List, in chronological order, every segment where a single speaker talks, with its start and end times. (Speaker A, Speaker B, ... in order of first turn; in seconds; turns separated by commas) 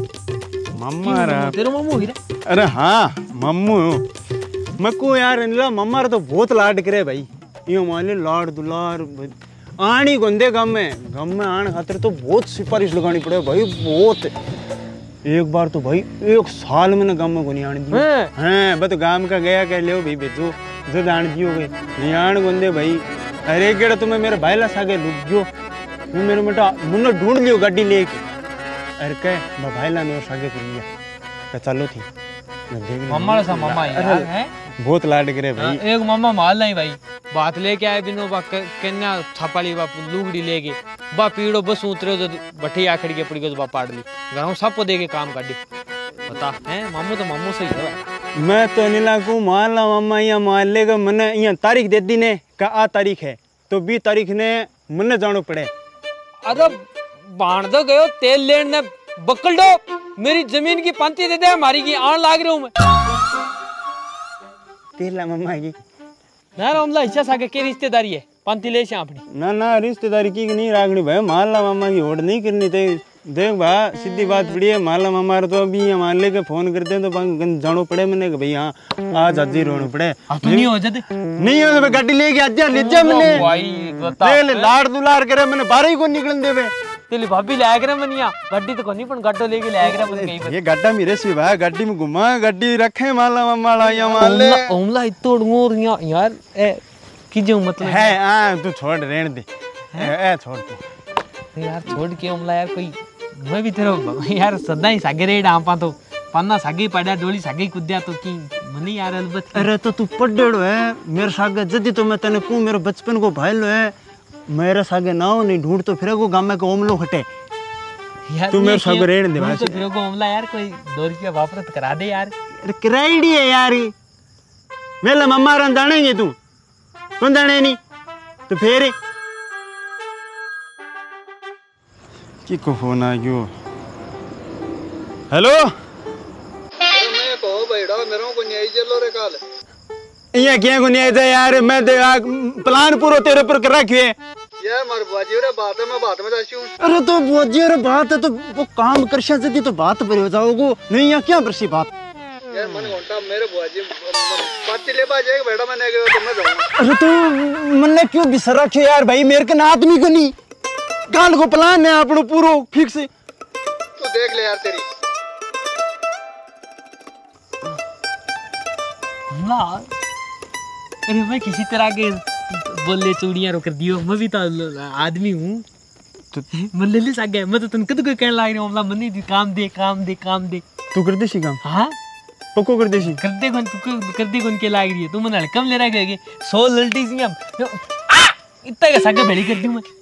Speaker A: 0.8-1.6, Speaker B: 1.0-2.2, Speaker A: 2.5-4.1, Speaker A: 4.8-14.3, Speaker A: 15.2-25.5, Speaker B: 17.9-18.3, Speaker A: 26.1-28.2, Speaker A: 29.0-30.9, Speaker A: 31.5-32.1, Speaker A: 32.7-35.8, Speaker B: 33.1-34.5, Speaker B: 35.6-45.6, Speaker B: 46.3-48.1, Speaker A: 48.4-55.7, Speaker B: 56.4-62.7, Speaker A: 65.0-65.8, Speaker B: 66.6-69.2, Speaker A: 69.3-80.7, Speaker B: 80.3-81.0, Speaker A: 81.4-83.5, Speaker B: 82.7-84.7, Speaker A: 84.1-86.7, Speaker B: 87.1-90.6, Speaker A: 89.8-94.8, Speaker B: 93.9-98.1, Speaker A: 97.8-100.8, Speaker B: 101.5-109.7, Speaker A: 109.5-114.0, Speaker A: 114.5-117.3, Speaker B: 118.3-122.3, Speaker A: 118.5-119.9, Speaker A: 122.5-123.9, Speaker A: 125.0-126.4, Speaker A: 127.2-127.8, Speaker A: 128.5-129.0, Speaker A: 132.4-133.5, Speaker A: 135.3-135.7, Speaker C: 136.9-139.4, Speaker A: 140.3-144.2, Speaker C: 144.6-146.7, Speaker A: 146.8-151.9, Speaker C: 152.5-156.7, Speaker A: 156.8-160.3, Speaker A: 161.1-163.1, Speaker C: 164.0-164.8, Speaker B: 169.3-169.9, Speaker B: 171.1-175.7, Speaker B: 176.5-180.6, Speaker A: 180.9-181.6, Speaker B: 181.6-182.0, Speaker A: 182.6-183.2, Speaker B: 183.0-189.8